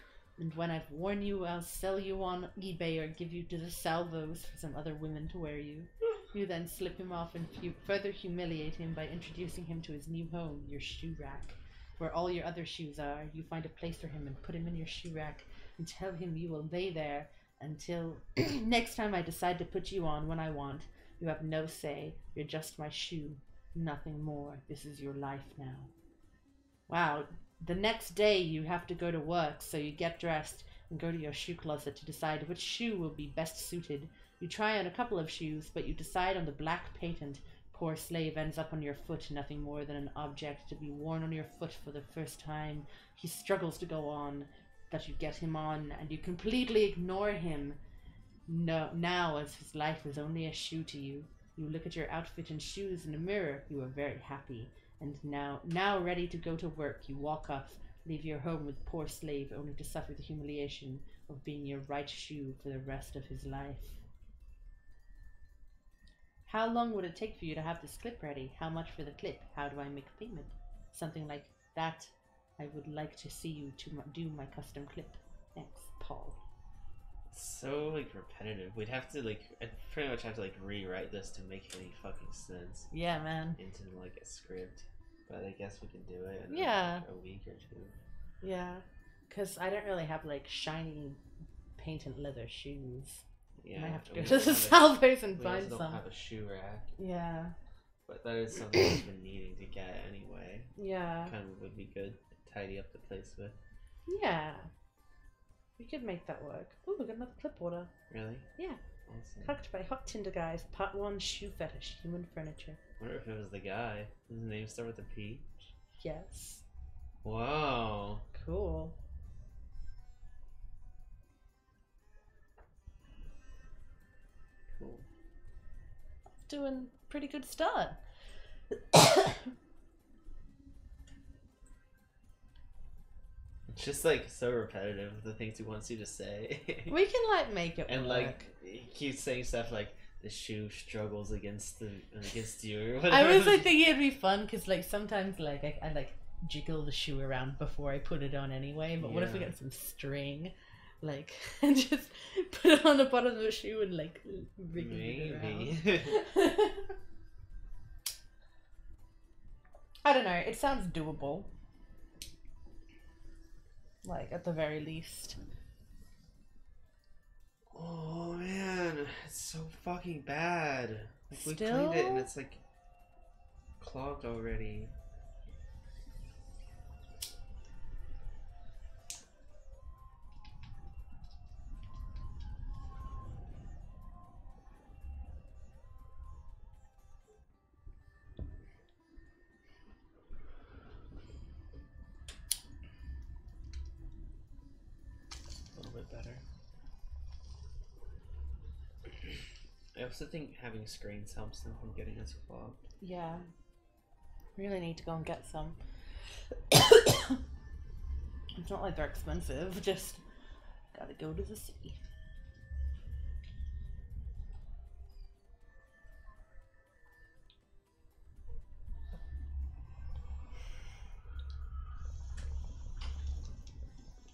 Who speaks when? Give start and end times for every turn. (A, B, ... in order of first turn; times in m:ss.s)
0:00.4-0:25.9 A
0:26.9-0:47.8 A
0:48.5-1:04.0 A
1:06.5-1:16.4 A
1:17.3-1:22.9 B
1:22.9-1:23.6 A
1:23.6-1:28.0 B
1:26.5-1:27.0 A
1:28.4-1:31.2 A
1:31.8-1:33.2 A
1:33.6-1:36.9 B
1:33.8-1:36.0 A
1:37.0-1:37.5 A
1:38.0-1:40.7 B
1:40.8-1:41.3 A
1:41.2-1:43.6 B
1:44.1-1:44.7 A
1:45.8-1:47.9 A
1:48.1-1:48.5 B
1:49.0-1:49.5 B
1:49.4-1:52.8 A
1:53.0-1:55.7 B
1:56.0-1:56.6 A
1:57.2-1:58.2 B
1:58.3-1:59.0 A
2:04.7-2:05.0 B
2:06.4-2:08.0 A
2:08.9-2:09.4 A
2:13.7-2:17.0 B
2:16.9-2:18.4 A
2:17.9-2:23.7 B
2:23.1-2:36.9 A
2:29.0-2:29.5 B
2:34.7-2:36.2 B
2:40.0-2:41.5 A
2:44.0-2:45.4 A
2:47.7-2:52.6 B
2:51.3-2:52.3 A
2:53.8-2:54.9 B
3:15.7-3:16.4 B
3:19.9-3:22.8 B
3:23.0-3:23.5 A
3:24.6-3:25.8 A
3:26.7-3:27.4 A
3:28.6-3:30.2 A
3:30.9-3:32.1 A